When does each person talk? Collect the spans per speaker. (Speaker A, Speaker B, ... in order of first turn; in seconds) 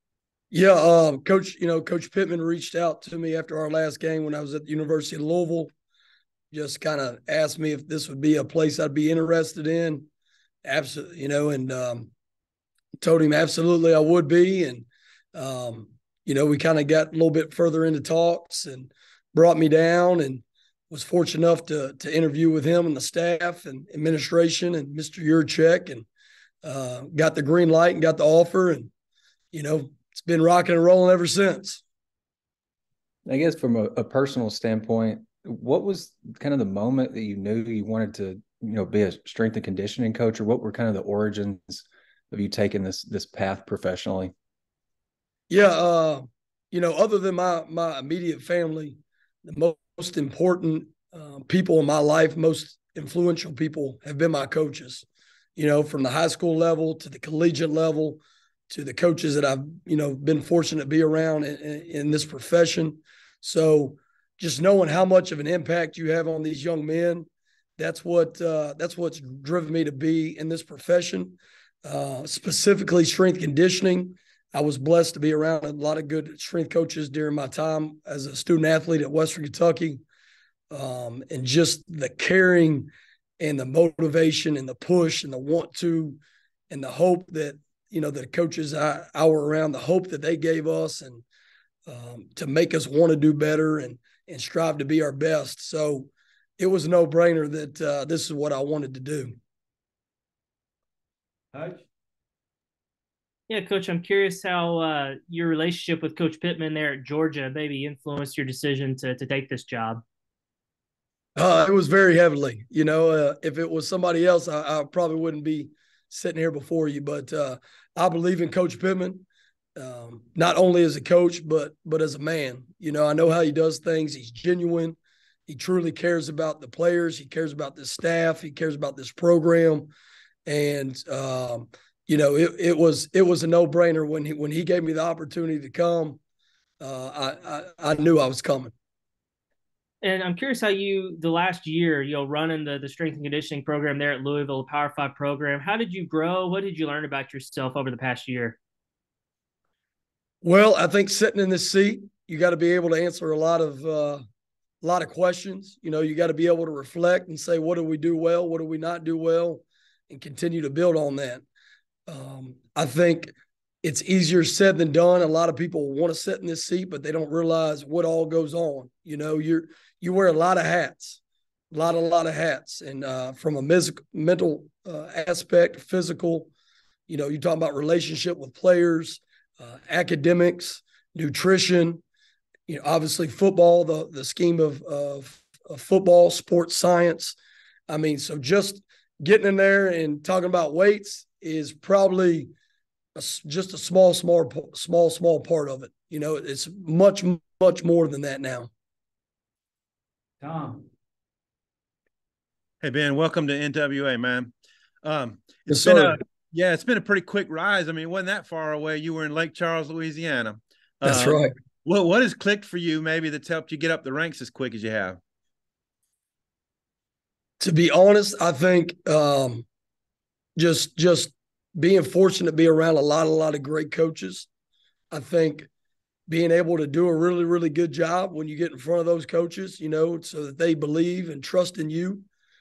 Speaker A: 0.5-5.7, 6.5-10.1, 10.6-12.1, 13.0-26.1, 26.6-28.9, 29.5-31.8, 45.5-55.0, 55.5-80.0, 80.7-91.2, 91.8-99.3, 111.3-129.9, 130.4-136.2, 136.8-138.7, 150.4-154.2, 154.8-161.4, 162.1-171.2, 171.7-176.5, 177.1-182.0, 182.7-187.3, 187.9-192.5, 193.1-198.7, 205.7-206.1, 211.0-211.5, 217.6-219.7, 220.6-224.5, 225.1-225.7, 226.3-232.2
Speaker B: 33.2-44.3
Speaker C: 103.5-110.0, 140.0-148.6
Speaker D: 202.8-204.5, 205.0-215.2